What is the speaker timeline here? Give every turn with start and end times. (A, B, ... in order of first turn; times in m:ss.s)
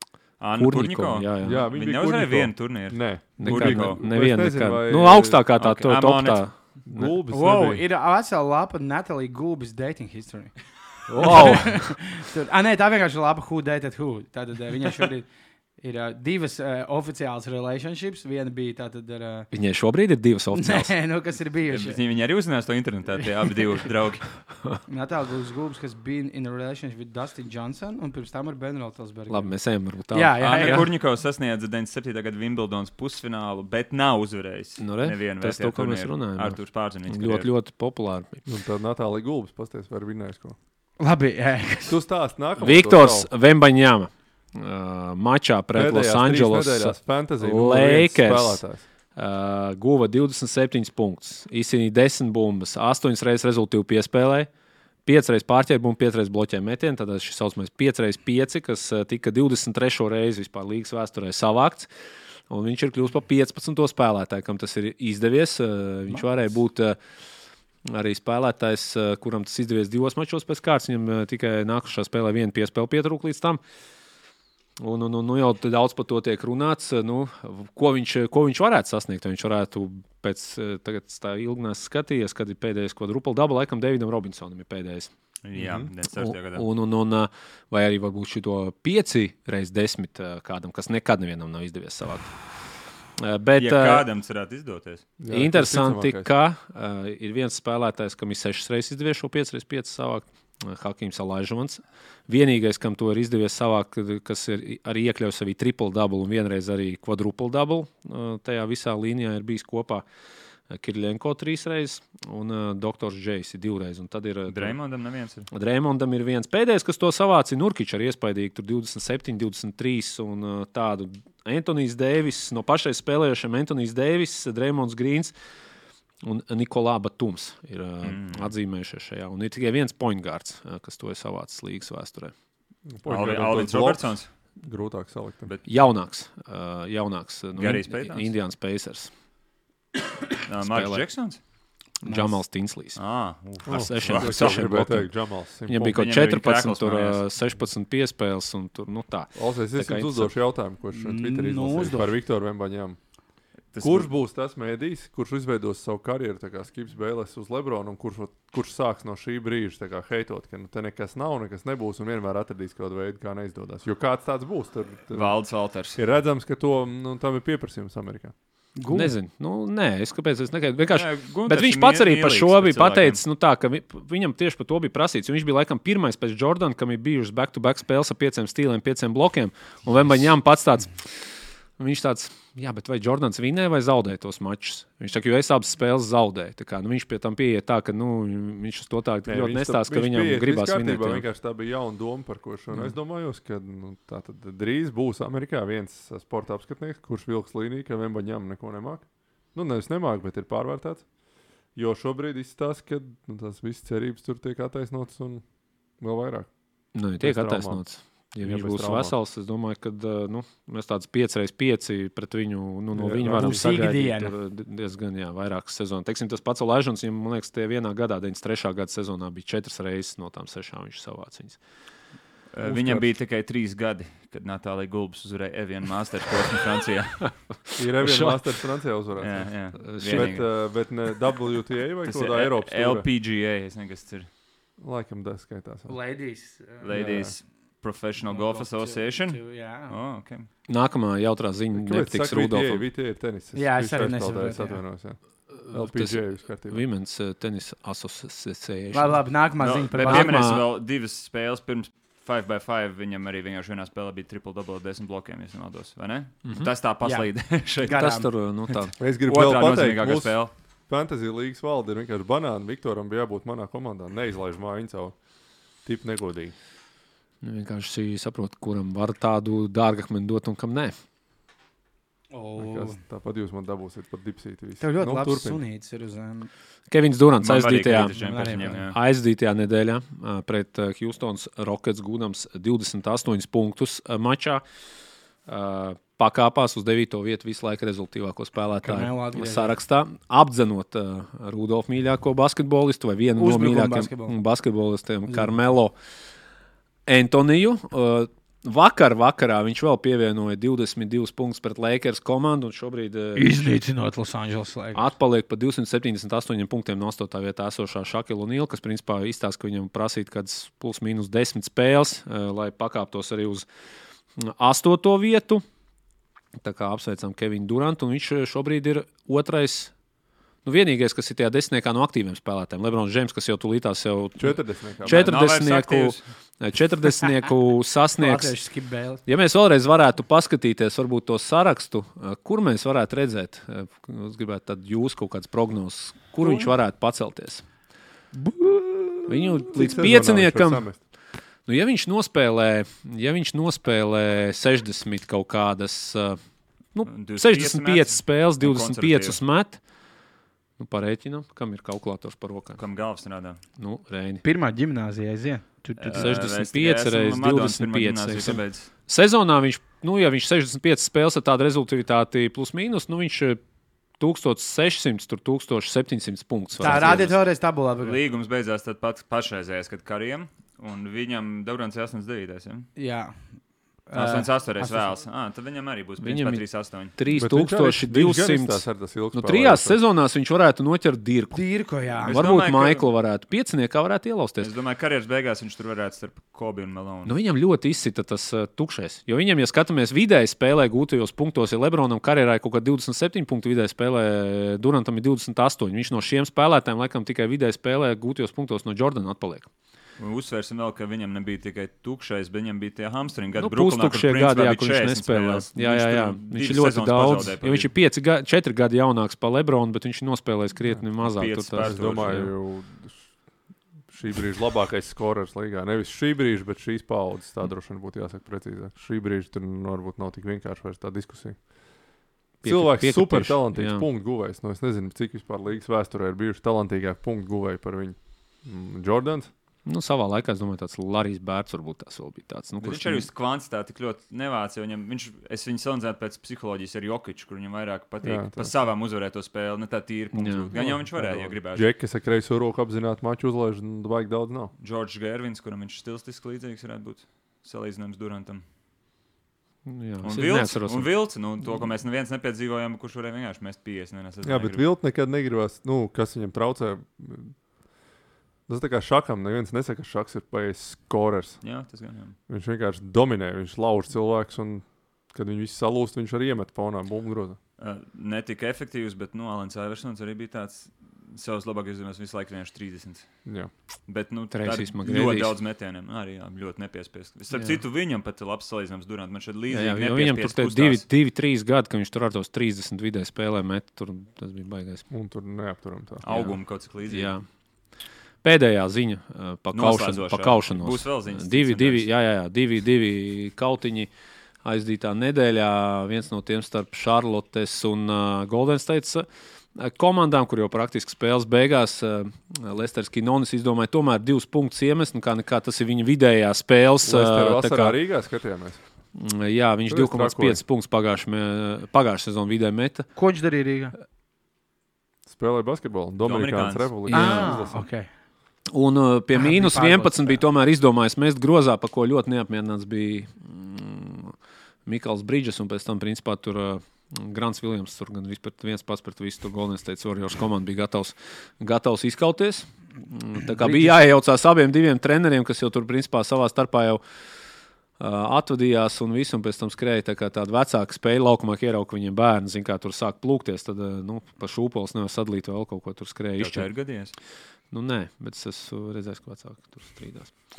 0:00.4-0:04.0 A
0:00.6-0:01.6 B
0:01.4-0:05.4 C
0:03.4-0:07.1 B
0:05.6-0:06.4 A
0:06.9-0:07.8 C
0:07.3-0:10.5 D
0:11.1-0:11.9 B
0:11.2-0:11.4 C
0:11.2-0:19.5 D
0:19.5-0:20.9 B
0:20.5-0:22.0 D
0:21.7-0:24.3 A
0:24.9-0:29.5 D
0:29.3-0:30.9 B
0:30.1-0:30.9 D
0:30.4-0:37.5 A
0:34.8-0:38.4 B
0:38.4-0:40.6 C
0:41.0-0:42.0 D
0:41.9-0:43.3 C
0:42.6-0:48.6 B
0:45.7-0:48.8 C
0:49.1-0:54.5 B
0:55.0-1:01.9 B
1:02.5-1:07.0 B
1:07.8-1:13.6 B
1:14.8-1:25.1 B
1:25.4-1:26.6 A
1:25.6-1:25.9 C
1:26.2-1:32.3 B
1:33.2-1:34.0 B
1:33.6-1:35.1 A
1:35.2-1:36.3 C
1:35.3-1:50.0 B
1:50.7-1:54.8 B
1:54.5-1:55.5 A
1:55.5-2:05.3 B
2:06.2-2:12.3 B
2:08.0-2:08.5 A
2:12.9-2:15.5 C
2:13.0-2:14.3 A
2:15.7-2:19.1 B
2:17.6-2:18.3 A
2:20.4-2:21.4 A
2:20.6-2:21.0 B
2:22.0-2:23.0 B
2:22.0-2:22.4 D
2:22.9-2:24.9 A
2:23.7-2:26.0 C
2:23.7-2:25.1 B
2:25.7-2:30.3 B
2:25.9-2:27.2 A
2:29.3-2:33.0 C
2:30.9-2:32.1 D
2:33.7-2:34.1 A
2:33.8-2:45.3 C
2:45.1-2:46.0 A
2:46.0-2:48.3 C
2:48.8-2:49.1 D
2:48.9-3:01.1 B
2:50.9-2:53.2 A
3:01.8-3:11.2 B
3:09.2-3:21.0 C
3:21.7-3:25.4 C
3:26.0-3:26.5 C
3:26.9-3:41.6 B
3:27.2-3:27.8 C
3:28.4-3:29.2 C
3:32.9-3:33.7 C
3:33.3-3:34.3 D
3:42.5-3:47.3 A
3:42.6-3:43.1 C
3:47.8-3:49.5 C
3:48.0-3:48.4 B
3:49.2-3:50.4 A
3:49.8-3:50.4 B
3:50.0-3:53.1 C
3:52.0-3:54.3 A
3:54.8-3:55.9 C
3:55.9-3:57.0 D
3:56.8-4:00.5 A
3:56.9-3:57.3 C
3:58.2-3:59.9 D
4:00.7-4:02.8 B
4:01.7-4:06.8 C
4:03.5-4:04.8 D
4:05.6-4:09.2 B
4:08.9-4:10.5 D
4:09.6-4:18.1 A
4:10.0-4:10.6 B
4:16.4-4:16.7 B
4:17.0-4:18.8 D
4:17.9-4:18.9 B
4:19.0-4:20.4 C
4:19.3-4:20.5 A
4:20.9-4:25.1 C
4:25.8-4:26.5 C
4:27.4-4:31.0 B
4:32.3-4:33.0 D
4:32.6-4:35.6 C
4:34.8-4:36.5 D
4:36.9-4:38.2 B
4:37.4-4:39.0 A
4:38.2-4:38.8 D
4:38.8-4:44.6 B
4:45.5-4:55.9 B
4:48.8-4:49.8 D
4:53.4-4:54.3 D
4:57.0-5:03.7 B
5:03.4-5:05.1 D
5:04.9-5:13.7 B
5:14.4-5:15.6 B
5:16.6-5:19.9 B
5:20.6-5:28.5 B
5:24.4-5:25.4 C
5:25.0-5:26.2 A
5:28.2-5:29.2 D
5:29.2-5:37.6 B
5:36.4-5:36.7 C
5:38.3-5:41.0 C
5:39.3-5:40.9 B
5:41.7-5:46.4 B
5:46.9-5:49.8 B
5:47.1-5:49.4 A
5:50.8-5:52.8 B
5:52.8-5:53.6 A
5:53.8-5:54.4 B
5:54.4-5:56.4 D
5:56.0-5:58.9 A
5:56.1-6:03.6 B
6:04.2-6:07.3 B
6:06.8-6:08.2 D
6:06.8-6:07.4 A
6:08.0-6:12.9 A
6:13.0-6:13.3 D
6:14.1-6:15.2 D
6:14.1-6:17.1 A
6:16.2-6:16.6 B
6:17.2-6:21.6 B
6:17.3-6:20.0 C
6:21.5-6:22.4 D
6:22.2-6:24.7 B
6:22.2-6:23.1 A
6:24.6-6:27.3 A
6:27.2-6:39.7 B
6:40.2-6:47.9 A
6:43.6-6:52.5 B
6:51.2-6:52.5 A
6:51.8-6:53.3 C
6:54.1-7:01.6 C
7:02.6-7:04.0 B
7:02.6-7:09.5 C
7:09.8-7:13.3 B
7:12.8-7:21.8 A
7:18.2-7:18.7 C
7:20.3-7:20.7 B
7:20.7-7:24.7 C
7:24.8-7:28.6 A
7:29.8-7:31.1 B
7:30.2-7:34.8 A
7:34.4-7:37.5 C
7:38.7-7:41.6 C
7:41.6-7:42.4 A
7:42.5-7:47.6 C
7:47.8-7:53.3 A
7:54.1-8:01.0 A
7:54.5-7:55.5 B
7:59.7-8:05.0 B
8:05.1-8:06.2 C
8:06.2-8:07.3 A
8:06.3-8:06.6 B
8:07.1-8:07.4 B
8:08.4-8:14.1 B
8:09.7-8:12.1 A
8:14.6-8:28.0 B
8:27.0-8:28.8 C
8:29.1-8:33.1 B
8:29.9-8:30.6 C
8:33.2-8:33.9 D
8:35.3-8:37.9 C
8:36.2-8:36.9 A
8:37.1-8:37.6 B
8:37.1-8:38.1 D
8:38.7-8:44.3 B
8:39.3-8:40.4 D
8:44.8-8:57.0 B
8:53.6-8:54.0 D
8:58.0-9:06.7 B
9:06.4-9:07.1 A
9:07.7-9:10.3 B